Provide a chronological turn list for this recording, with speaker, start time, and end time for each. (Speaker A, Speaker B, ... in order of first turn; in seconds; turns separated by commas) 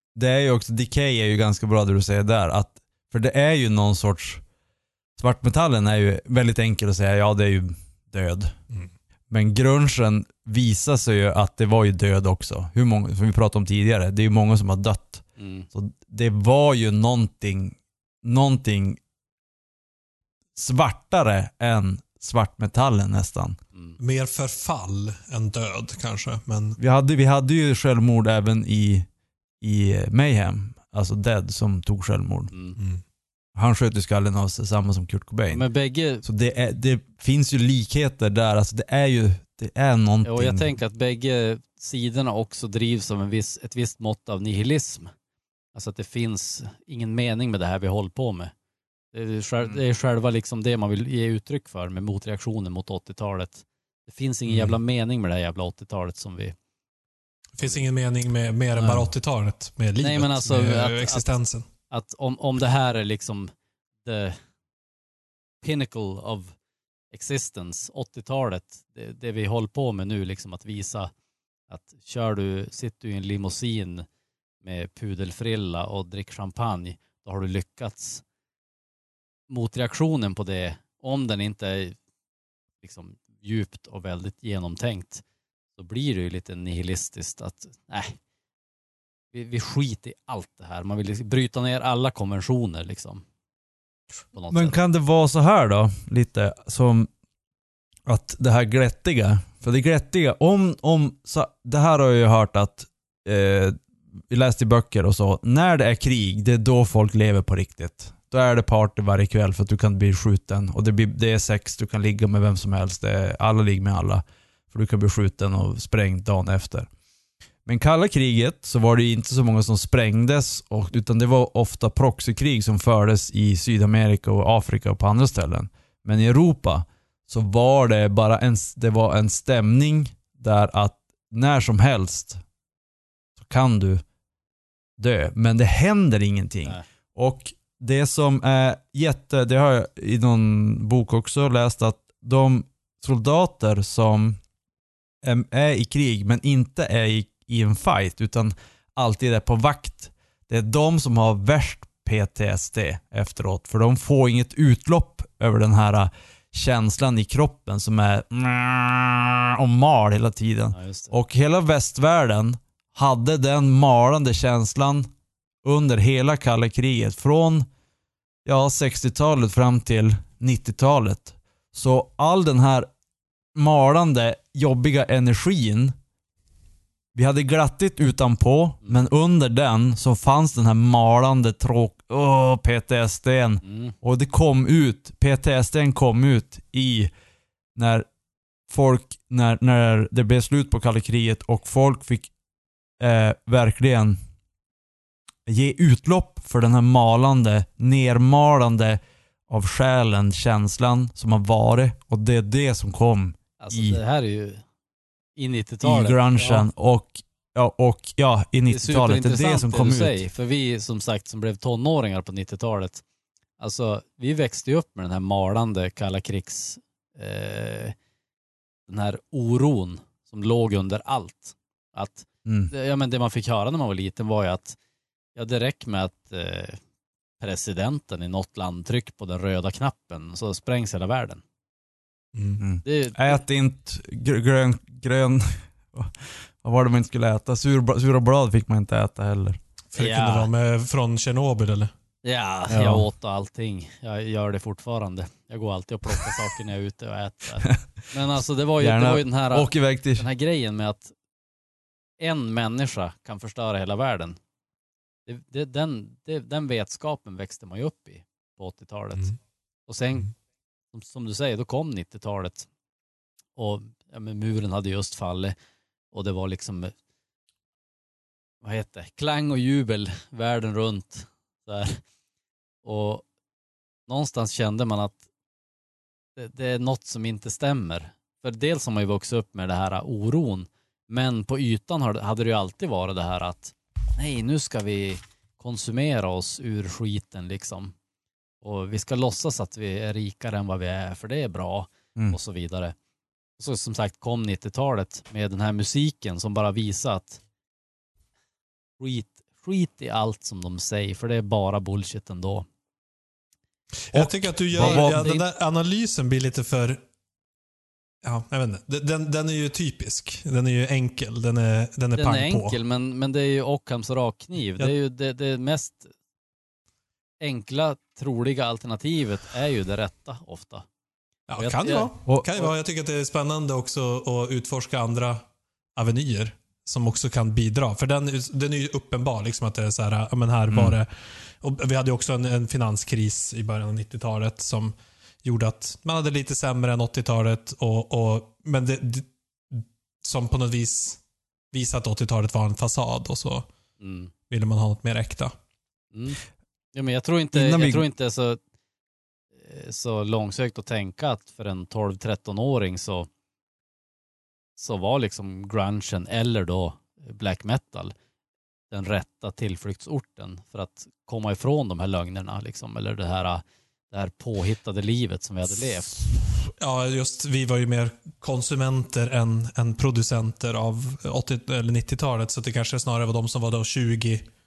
Speaker A: 0.1-4.4, Speaker A: 5.2-8.5, Speaker A: 9.3-19.0, Speaker B: 15.4-15.7, Speaker A: 20.6-23.6, Speaker C: 24.0-26.8, Speaker A: 26.8-29.1, Speaker A: 29.6-32.5, Speaker B: 32.5-32.8, Speaker A: 33.5-35.6, Speaker B: 35.5-36.2, Speaker A: 36.2-40.7, Speaker B: 40.2-45.1, Speaker B: 45.7-48.5, Speaker B: 49.1-56.5, Speaker C: 57.5-61.7, Speaker B: 58.8-59.1, Speaker B: 60.0-61.3, Speaker B: 61.9-63.5, Speaker B: 64.0-64.4, Speaker B: 65.6-66.5, Speaker B: 67.1-71.1, Speaker B: 71.7-74.0, Speaker B: 74.6-78.2, Speaker B: 79.5-82.0, Speaker B: 82.8-85.2, Speaker B: 85.8-88.2, Speaker B: 89.3-93.2, Speaker B: 94.2-94.8, Speaker A: 94.5-97.1, Speaker A: 98.0-103.8, Speaker A: 104.3-116.9, Speaker A: 117.7-132.4, Speaker A: 133.4-134.0, Speaker A: 135.0-144.4, Speaker A: 145.2-165.1, Speaker B: 160.7-161.1, Speaker A: 165.6-167.7, Speaker A: 168.4-172.9, Speaker A: 173.5-175.9, Speaker A: 177.1-187.1, Speaker B: 183.6-183.9, Speaker A: 187.8-188.1, Speaker A: 188.7-192.3, Speaker A: 193.0-194.2, Speaker A: 195.5-204.0, Speaker B: 203.6-204.6, Speaker B: 205.3-206.7, Speaker A: 205.8-210.2, Speaker B: 208.7-213.0, Speaker B: 213.6-217.9, Speaker B: 218.9-224.8, Speaker A: 222.4-222.7, Speaker B: 225.3-226.8, Speaker B: 227.4-231.4, Speaker C: 232.3-232.6, Speaker A: 232.6-239.6, Speaker B: 232.8-233.4, Speaker C: 239.9-241.9, Speaker B: 239.9-240.5, Speaker B: 242.2-251.1, Speaker A: 242.7-243.0, Speaker A: 248.8-250.2, Speaker B: 252.2-254.4, Speaker B: 255.3-259.3, Speaker B: 259.9-260.3, Speaker B: 260.9-262.7, Speaker B: 263.6-265.5, Speaker B: 266.1-266.9, Speaker B: 268.6-272.0, Speaker B: 272.8-273.2, Speaker B: 274.1-275.2, Speaker B: 276.4-287.9, Speaker B: 288.6-292.9, Speaker B: 293.6-297.4, Speaker B: 299.0-302.6, Speaker C: 304.1-307.0, Speaker A: 304.1-305.3, Speaker B: 304.7-305.4, Speaker C: 308.2-312.8, Speaker B: 312.1-316.1, Speaker B: 317.4-320.8, Speaker C: 321.5-325.4, Speaker B: 321.6-322.1, Speaker C: 325.9-341.2, Speaker C: 341.7-343.7, Speaker B: 344.0-344.3, Speaker C: 344.5-345.5, Speaker B: 346.1-346.4, Speaker B: 346.9-348.6, Speaker A: 347.5-348.1, Speaker B: 349.6-353.3, Speaker B: 354.8-358.1, Speaker B: 358.9-366.2, Speaker C: 366.6-374.5